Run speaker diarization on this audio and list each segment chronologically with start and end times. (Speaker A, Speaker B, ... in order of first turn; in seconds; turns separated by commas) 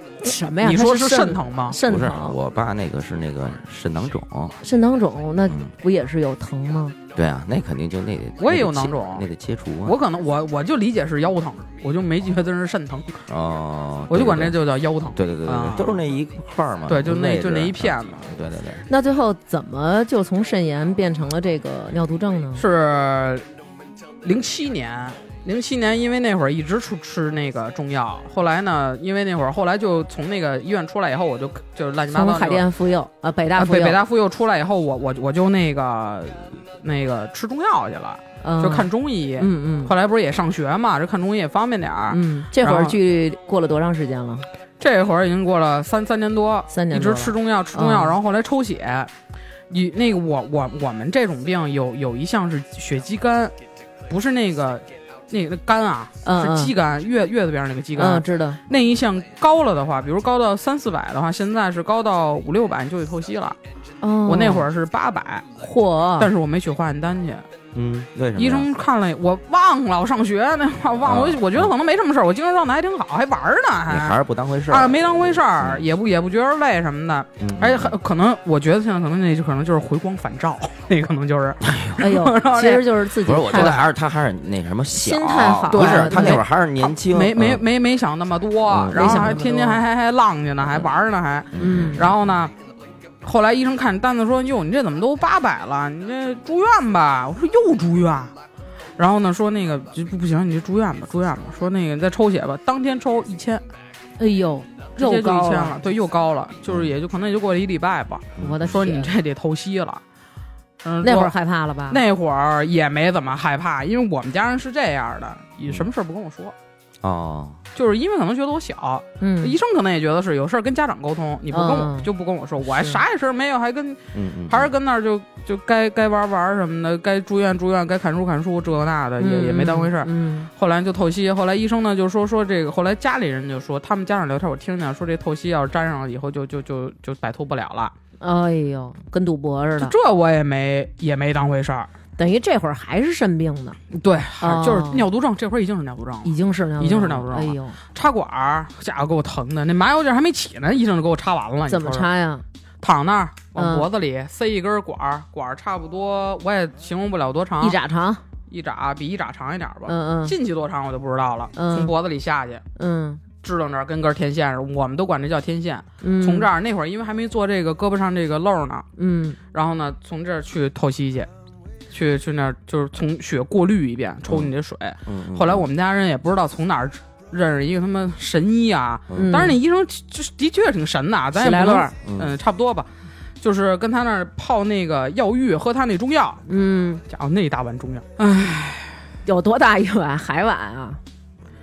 Speaker A: 0.2-2.4, Speaker B: 0.6-1.8, Speaker C: 1.8-4.5, Speaker A: 4.6-7.0, Speaker C: 5.5-5.7, Speaker C: 7.1-10.0, Speaker B: 8.4-9.3, Speaker B: 9.8-13.2, Speaker C: 13.3-18.9, Speaker B: 14.1-16.0, Speaker B: 16.9-18.3, Speaker A: 18.9-22.6, Speaker B: 22.6-23.4, Speaker B: 24.2-32.6, Speaker A: 32.1-34.0, Speaker B: 33.6-43.0, Speaker A: 38.4-39.9, Speaker A: 42.1-44.5, Speaker B: 44.8-49.1, Speaker A: 46.7-48.1, Speaker B: 49.7-53.5, Speaker B: 54.1-63.6, Speaker A: 56.2-56.7, Speaker A: 58.0-58.6, Speaker A: 64.0-64.7, Speaker B: 64.2-65.5, Speaker A: 65.6-66.3, Speaker B: 66.2-67.4, Speaker C: 67.7-68.7, Speaker B: 68.3-74.2, Speaker C: 71.0-71.7, Speaker C: 73.9-75.9, Speaker B: 74.7-83.0, Speaker C: 77.4-78.0, Speaker C: 81.6-82.0, Speaker A: 82.0-83.8, Speaker C: 83.2-87.6, Speaker B: 83.5-83.8, Speaker A: 84.9-86.4, Speaker B: 85.7-92.5, Speaker C: 88.7-89.4, Speaker A: 88.9-89.8, Speaker C: 91.5-92.3, Speaker A: 91.6-92.1, Speaker B: 93.2-98.3, Speaker B: 99.0-103.6, Speaker A: 104.2-105.8, Speaker B: 105.0-110.0, Speaker C: 106.7-106.9, Speaker C: 108.4-108.8, Speaker A: 108.4-109.1, Speaker B: 110.8-111.3, Speaker A: 111.0-112.0, Speaker B: 111.9-116.5, Speaker C: 117.0-117.6, Speaker B: 117.7-137.9, Speaker A: 119.2-119.6, Speaker A: 121.5-122.1, Speaker A: 122.6-123.0, Speaker C: 124.1-124.7, Speaker A: 129.2-130.5, Speaker A: 138.2-139.9, Speaker B: 139.8-141.9, Speaker A: 142.2-143.8, Speaker B: 143.9-152.1, Speaker A: 144.4-145.0, Speaker A: 146.2-147.8, Speaker A: 151.7-152.4, Speaker B: 152.8-157.8, Speaker A: 153.5-153.9, Speaker A: 157.6-158.2, Speaker B: 158.5-162.6, Speaker A: 159.9-160.3, Speaker A: 161.6-161.9, Speaker A: 162.8-163.2, Speaker B: 163.4-168.9, Speaker A: 166.0-166.5, Speaker A: 169.0-169.4, Speaker B: 169.5-171.3, Speaker B: 171.9-182.9, Speaker C: 175.1-175.7, Speaker C: 179.1-179.4, Speaker A: 179.1-179.6, Speaker A: 181.3-181.9, Speaker C: 182.1-182.3, Speaker B: 183.4-186.4, Speaker A: 186.5-187.0, Speaker B: 187.1-188.9, Speaker A: 189.2-191.0